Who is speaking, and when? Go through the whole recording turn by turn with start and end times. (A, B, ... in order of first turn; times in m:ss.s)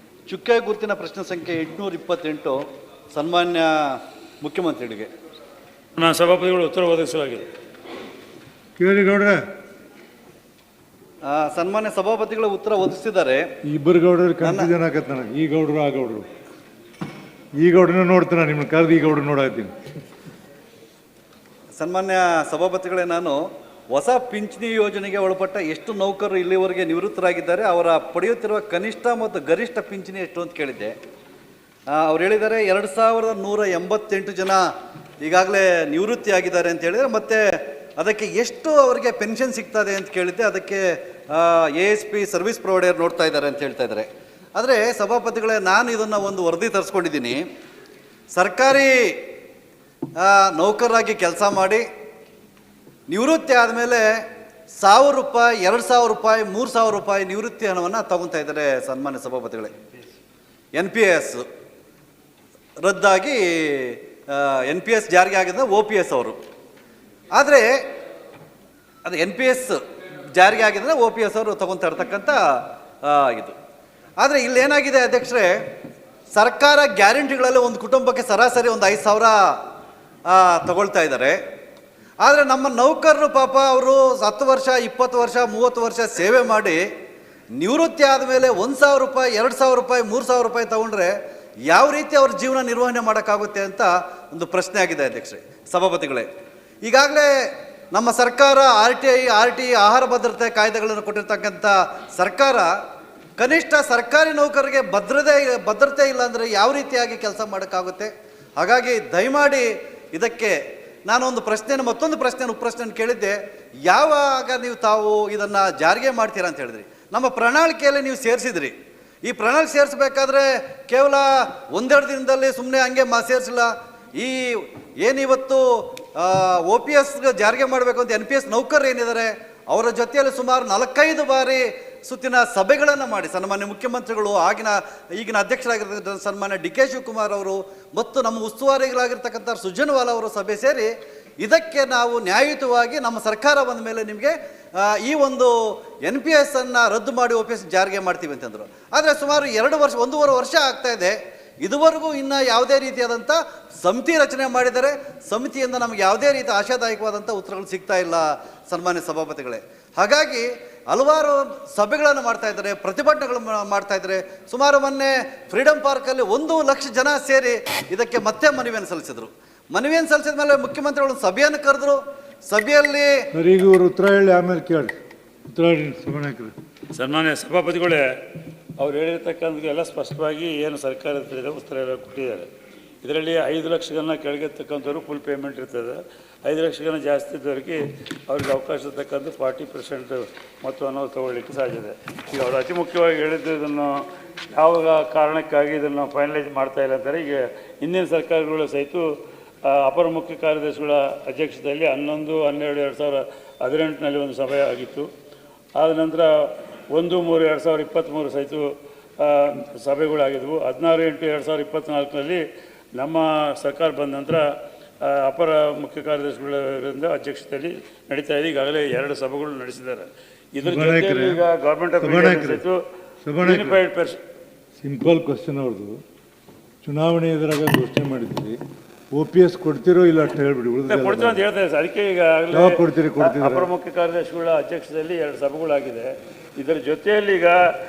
0:00.3-0:02.6 A
0:03.1-0:05.1 A
0:06.0-0:07.5 B
0:08.8-0:09.4 C
0:11.2-0:13.4 A
0:13.7-0:16.2 C
0:14.4-0:14.7 A
0:17.6-0:19.7 C
0:21.8-0:30.9 A
0:31.9-0:34.6 A
0:35.2-0:47.4 A
0:48.3-0:49.2 A
0:50.2-0:51.8 A
0:53.1-0:54.2 A
0:54.8-0:59.7 A
1:00.7-1:01.4 A
1:02.8-1:06.4 A
1:07.3-1:07.7 A
1:09.0-1:09.8 A
1:10.3-1:12.4 A
1:13.0-1:13.5 A
1:14.2-1:15.5 A
1:16.3-1:19.6 A
1:20.3-1:21.4 A
1:22.2-1:26.8 A
1:27.6-1:31.1 A
1:31.7-1:36.3 A
1:36.8-1:42.7 A
1:43.4-1:58.7 A
1:59.2-2:53.3 A
2:53.3-2:54.9 C
2:55.5-2:56.5 C
2:56.9-2:58.0 B
2:58.8-3:02.5 B
3:03.0-3:19.0 B
3:19.6-3:25.1 B
3:25.8-3:28.6 B
3:29.2-3:32.4 B
3:33.0-3:34.4 B
3:35.0-3:42.8 B
3:40.6-3:41.4 C
3:42.0-3:42.6 C
3:43.2-3:43.8 C
3:43.4-3:44.2 B
3:44.8-3:46.0 C
3:46.8-3:48.6 C
3:49.1-3:51.4 C
3:50.9-3:57.6 B
3:52.5-3:53.7 C